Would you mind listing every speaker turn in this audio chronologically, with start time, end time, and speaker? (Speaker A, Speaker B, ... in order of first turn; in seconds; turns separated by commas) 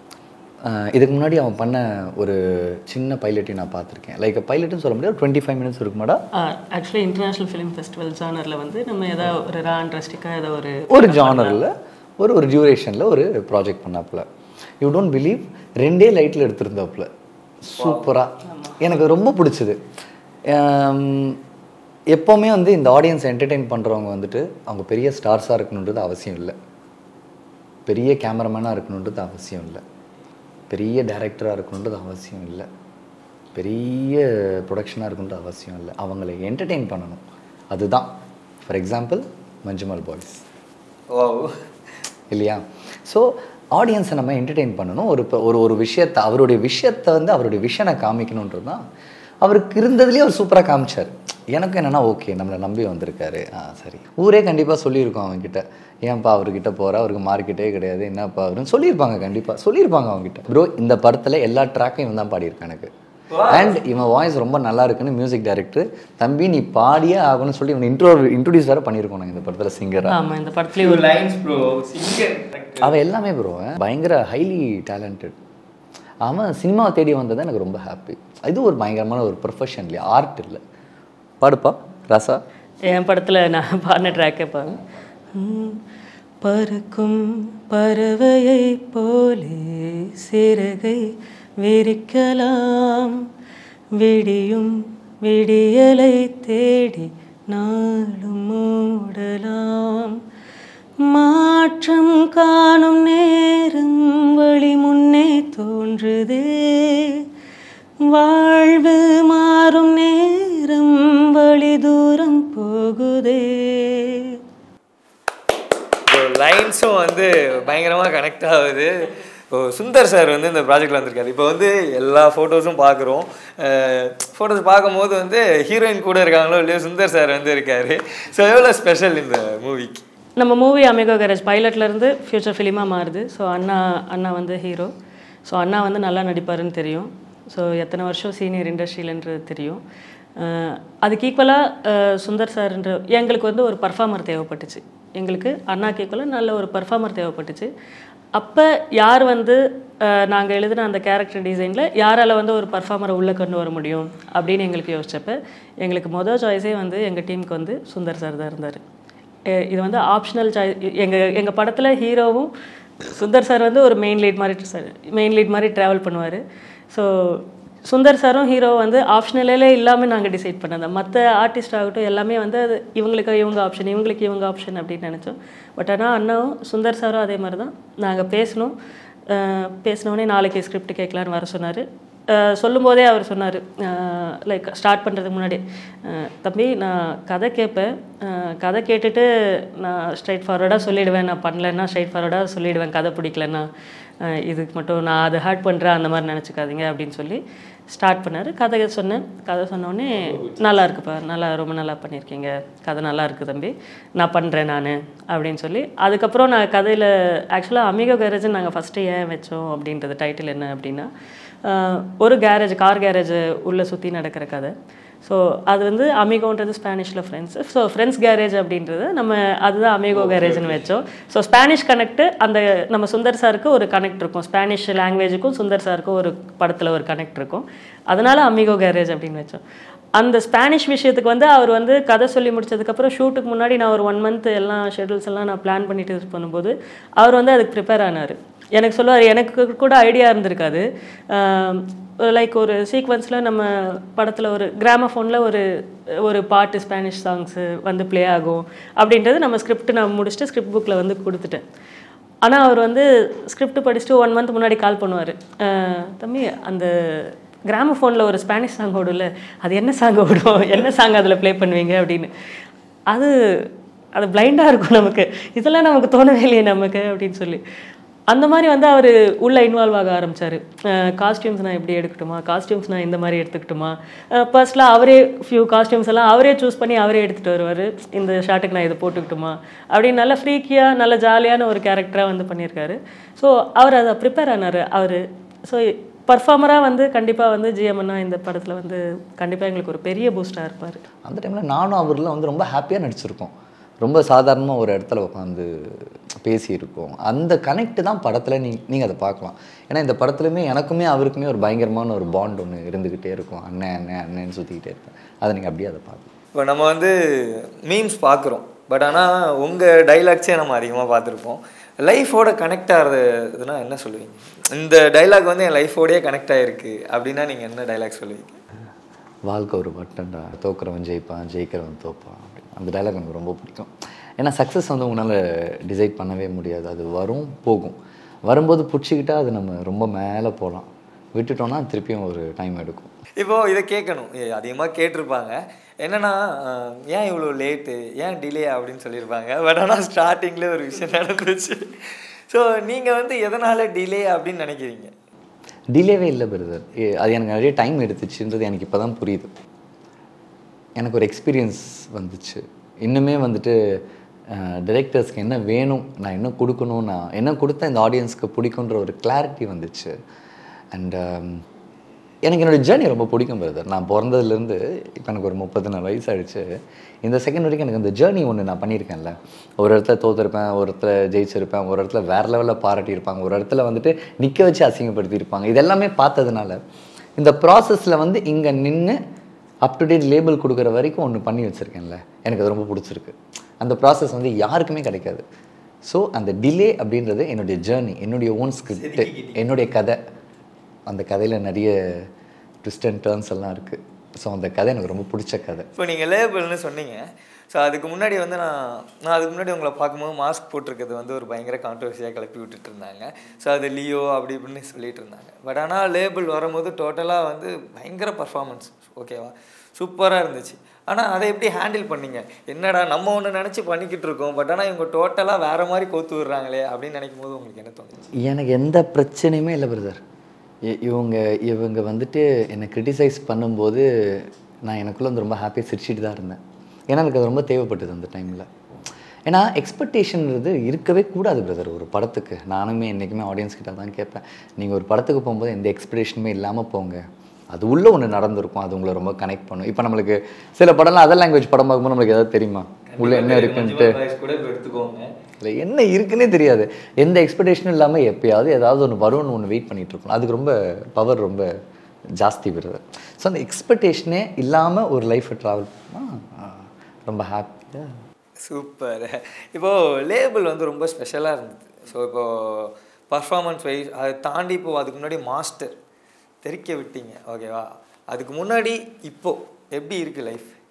Speaker A: 0.7-6.2, Speaker B: 6.4-11.6, Speaker A: 10.9-14.2, Speaker A: 14.8-17.1, Speaker A: 17.6-19.8, Speaker C: 17.8-18.2, Speaker B: 18.5-18.8, Speaker A: 20.5-21.4, Speaker A: 22.1-26.5, Speaker A: 27.9-29.8, Speaker A: 30.7-32.7, Speaker A: 33.5-38.1, Speaker A: 38.6-40.4, Speaker C: 41.1-41.5, Speaker A: 42.3-48.8, Speaker A: 49.4-62.9, Speaker C: 63.3-63.8, Speaker A: 63.5-70.2, Speaker B: 70.1-71.1, Speaker C: 70.8-73.0, Speaker A: 72.8-75.3, Speaker A: 76.2-80.6, Speaker A: 81.4-82.4, Speaker B: 82.9-84.8, Speaker B: 85.3-85.8, Speaker B: 86.4-93.2, Speaker B: 93.9-100.2, Speaker B: 101.0-107.2, Speaker B: 108.0-114.3, Speaker C: 116.1-118.9, Speaker C: 119.5-130.1, Speaker B: 130.4-134.9, Speaker B: 135.4-139.8, Speaker B: 140.4-147.7, Speaker B: 148.3-158.8, Speaker B: 159.5-162.5, Speaker B: 163.1-178.7, Speaker B: 179.3-193.7, Speaker B: 194.2-211.1, Speaker C: 200.2-200.6, Speaker B: 211.6-229.6, Speaker C: 220.1-220.9, Speaker B: 230.2-245.7, Speaker B: 246.2-251.6, Speaker B: 252.4-262.3, Speaker B: 263.1-267.6, Speaker B: 268.3-291.0, Speaker A: 291.2-306.3, Speaker C: 306.5-318.6, Speaker A: 319.5-333.1, Speaker C: 333.4-341.8, Speaker C: 342.5-345.1, Speaker A: 345.9-349.5, Speaker A: 351.0-360.1, Speaker A: 360.9-361.6, Speaker A: 362.4-366.7, Speaker A: 367.2-376.8, Speaker A: 377.4-379.2, Speaker A: 379.8-385.4, Speaker A: 386.1-390.2, Speaker C: 388.9-389.7, Speaker A: 391.1-392.3, Speaker A: 392.8-395.9, Speaker C: 396.0-418.3, Speaker A: 418.4-420.2, Speaker A: 420.9-426.6, Speaker A: 427.1-428.7, Speaker A: 429.5-444.2, Speaker C: 443.1-445.3, Speaker A: 445.6-451.7, Speaker A: 452.4-458.1, Speaker C: 458.6-465.9, Speaker C: 466.6-470.7